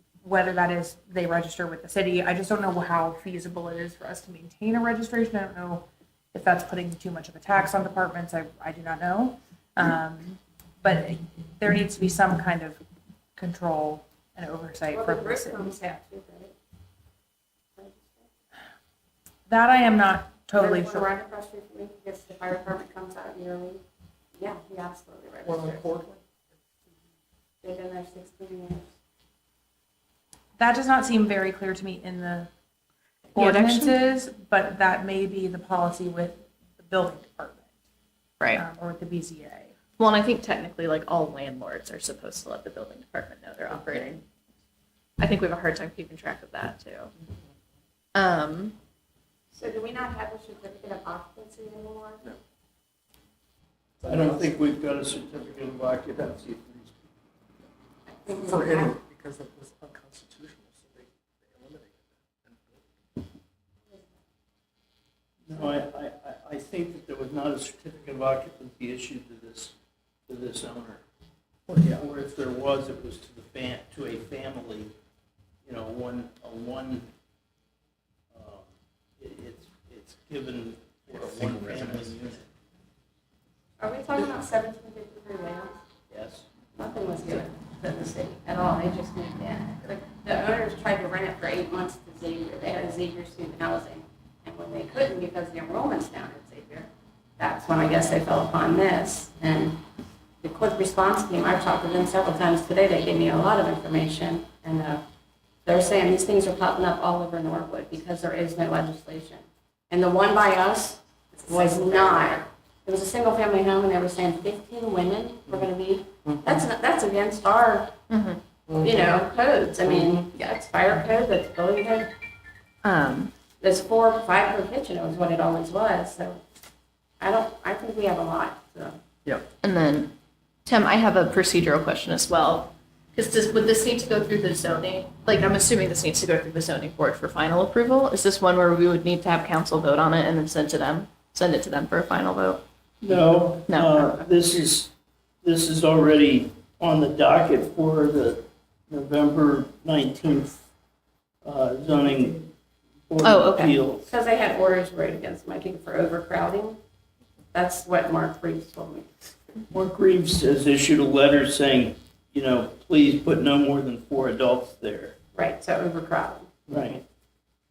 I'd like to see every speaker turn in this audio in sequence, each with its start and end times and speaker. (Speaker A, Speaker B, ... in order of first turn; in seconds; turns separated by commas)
Speaker A: 0.2-12.8, Speaker A: 13.3-16.0, Speaker B: 14.9-16.5, Speaker B: 17.8-18.3, Speaker A: 19.5-21.1, Speaker B: 20.6-23.8, Speaker B: 24.4-26.0, Speaker C: 25.4-26.2, Speaker B: 27.6-28.9, Speaker A: 30.6-32.5, Speaker A: 33.3-37.6, Speaker D: 33.4-33.9, Speaker A: 38.5-39.7, Speaker D: 40.0-44.2, Speaker D: 45.2-47.1, Speaker D: 48.1-48.8, Speaker B: 49.5-52.3, Speaker C: 54.0-54.4, Speaker E: 54.0-57.0, Speaker B: 58.1-59.0, Speaker C: 58.4-62.8, Speaker B: 63.9-64.2, Speaker E: 65.4-69.7, Speaker E: 70.3-71.0, Speaker C: 71.7-72.0, Speaker E: 71.8-74.9, Speaker E: 75.7-77.1, Speaker E: 78.3-78.7, Speaker E: 79.2-82.5, Speaker C: 81.1-82.1, Speaker B: 83.8-85.8, Speaker E: 86.1-86.5, Speaker B: 86.8-99.8, Speaker B: 100.4-105.0, Speaker B: 105.6-118.0, Speaker D: 118.1-118.4, Speaker C: 118.7-119.1, Speaker B: 118.7-122.1, Speaker D: 122.8-123.3, Speaker B: 123.6-126.4, Speaker B: 127.2-129.0, Speaker D: 129.6-130.1, Speaker D: 130.6-142.6, Speaker E: 143.0-144.9, Speaker D: 143.7-144.1, Speaker E: 145.4-150.6, Speaker E: 151.4-152.4, Speaker E: 153.1-154.1, Speaker D: 153.2-153.8, Speaker B: 154.1-156.8, Speaker B: 157.5-159.1, Speaker E: 159.7-165.1, Speaker B: 165.3-166.5, Speaker E: 166.7-167.0